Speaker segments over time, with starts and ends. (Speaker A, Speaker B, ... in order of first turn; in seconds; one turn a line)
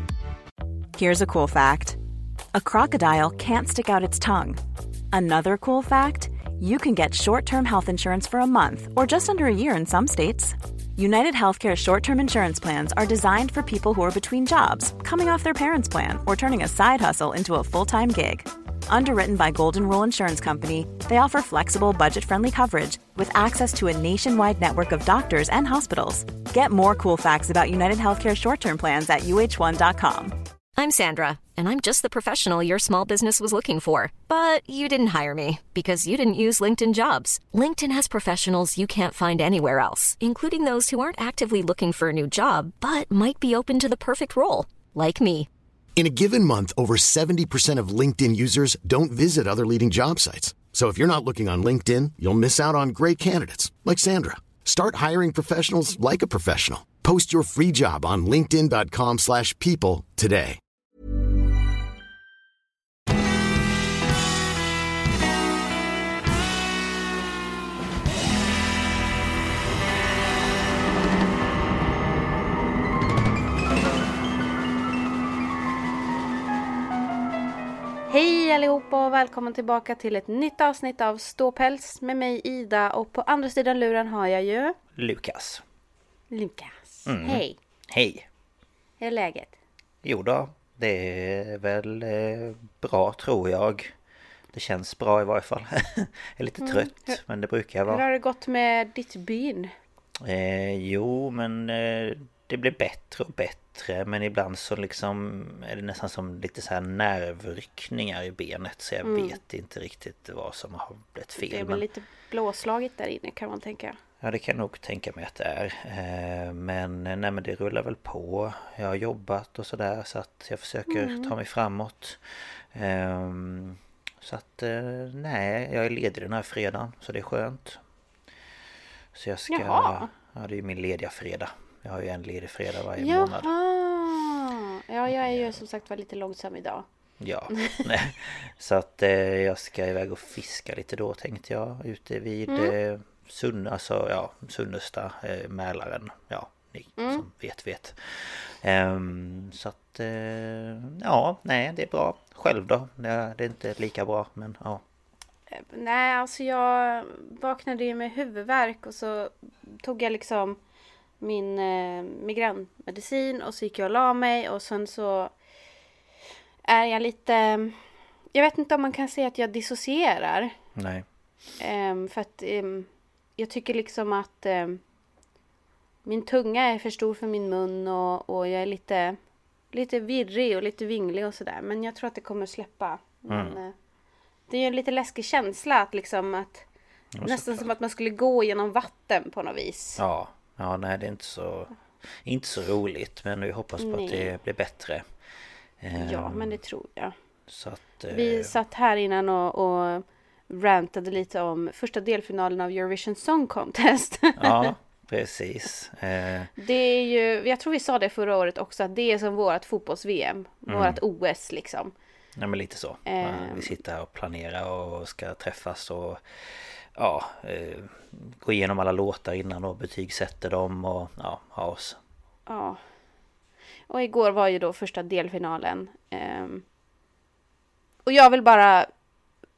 Speaker A: 0.9-2.0
Speaker A: 2.5-4.6
Speaker A: 5.1-30.4
Speaker B: 30.8-45.5
Speaker C: 46.0-60.6
Speaker D: 78.1-84.8
Speaker E: 85.0-85.6
Speaker D: 86.3-87.6
Speaker E: 87.0-88.3
Speaker D: 89.0-89.5
Speaker E: 90.0-93.9
Speaker E: 94.5-98.0
Speaker D: 96.6-97.2
Speaker D: 97.9-99.7
Speaker E: 100.2-111.8
Speaker D: 109.0-109.4
Speaker D: 111.4-114.0
Speaker E: 114.2-127.8
Speaker D: 120.9-121.3
Speaker E: 129.1-133.5
Speaker D: 129.5-130.1
Speaker D: 133.0-136.8
Speaker E: 135.1-135.6
Speaker E: 137.2-154.8
Speaker D: 137.5-137.9
Speaker D: 142.5-142.7
Speaker D: 147.0-147.2
Speaker D: 155.5-160.6
Speaker D: 161.2-165.3
Speaker D: 166.7-167.8
Speaker D: 168.3-170.5
Speaker E: 170.8-171.1
Speaker D: 171.6-174.8
Speaker D: 176.1-179.2
Speaker D: 179.7-183.7
Speaker E: 183.3-183.6
Speaker D: 184.5-186.6
Speaker E: 187.1-187.7
Speaker D: 187.2-190.0
Speaker E: 190.0-195.0
Speaker D: 193.8-194.3
Speaker E: 195.8-196.6
Speaker D: 195.9-197.1
Speaker E: 197.5-198.5
Speaker D: 198.1-204.7
Speaker E: 204.4-206.5
Speaker D: 206.6-211.9
Speaker E: 210.7-211.0
Speaker E: 212.3-222.0
Speaker D: 213.1-213.8
Speaker D: 222.5-222.8
Speaker D: 223.9-226.6
Speaker D: 228.1-228.9